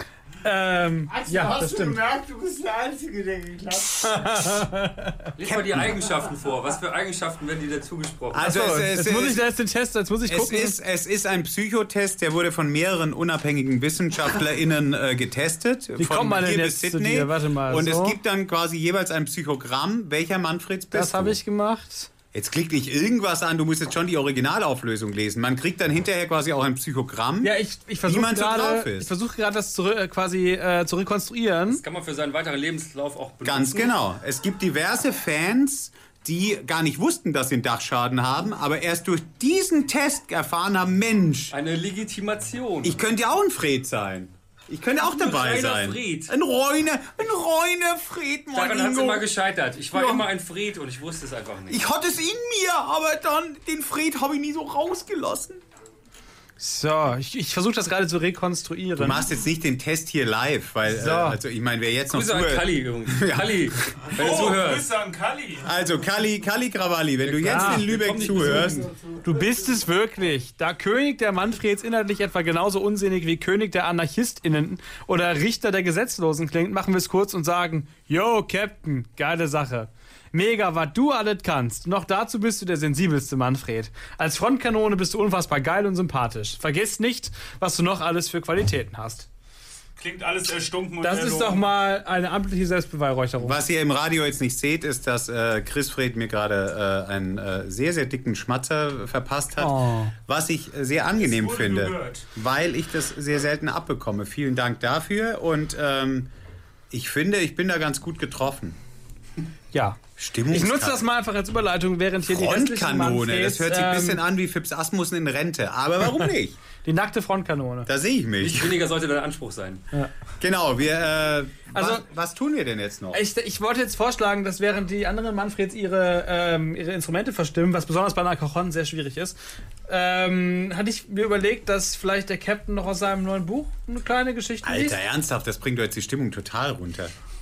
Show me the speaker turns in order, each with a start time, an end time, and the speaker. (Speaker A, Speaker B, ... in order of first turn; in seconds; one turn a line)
Speaker A: 0.4-2.0
Speaker B: 1.1-4.6
Speaker A: 4.0-5.3
Speaker C: 5.4-8.5
Speaker D: 5.4-6.0
Speaker D: 8.3-9.4
Speaker A: 8.4-10.8
Speaker D: 10.3-21.4
Speaker A: 16.0-18.2
Speaker A: 20.9-22.1
Speaker D: 22.3-27.5
Speaker A: 27.4-31.8
Speaker D: 28.0-29.1
Speaker C: 31.7-33.9
Speaker D: 33.4-41.5
Speaker C: 41.5-43.0
Speaker D: 42.8-49.3
Speaker C: 45.0-46.3
Speaker C: 48.5-51.8
Speaker D: 49.9-50.2
Speaker D: 51.7-55.6
Speaker A: 56.6-59.2
Speaker D: 59.0-64.1
Speaker A: 60.9-61.4
Speaker C: 62.1-64.9
Speaker E: 64.1-65.7
Speaker D: 65.6-68.9
Speaker C: 67.2-68.8
Speaker A: 67.5-67.9
Speaker B: 68.1-69.8
Speaker A: 69.2-89.3
Speaker E: 90.0-91.7
Speaker A: 91.0-93.6
Speaker D: 93.4-106.3
Speaker A: 99.6-100.1
Speaker E: 101.2-102.2
Speaker D: 106.9-108.8
Speaker A: 109.7-110.0
Speaker D: 110.2-111.0
Speaker A: 110.5-114.2
Speaker D: 112.2-116.6
Speaker A: 116.8-117.9
Speaker D: 117.8-118.7
Speaker C: 118.4-119.8
Speaker D: 120.4-123.2
Speaker A: 121.7-122.0
Speaker A: 123.1-135.0
Speaker D: 134.6-137.1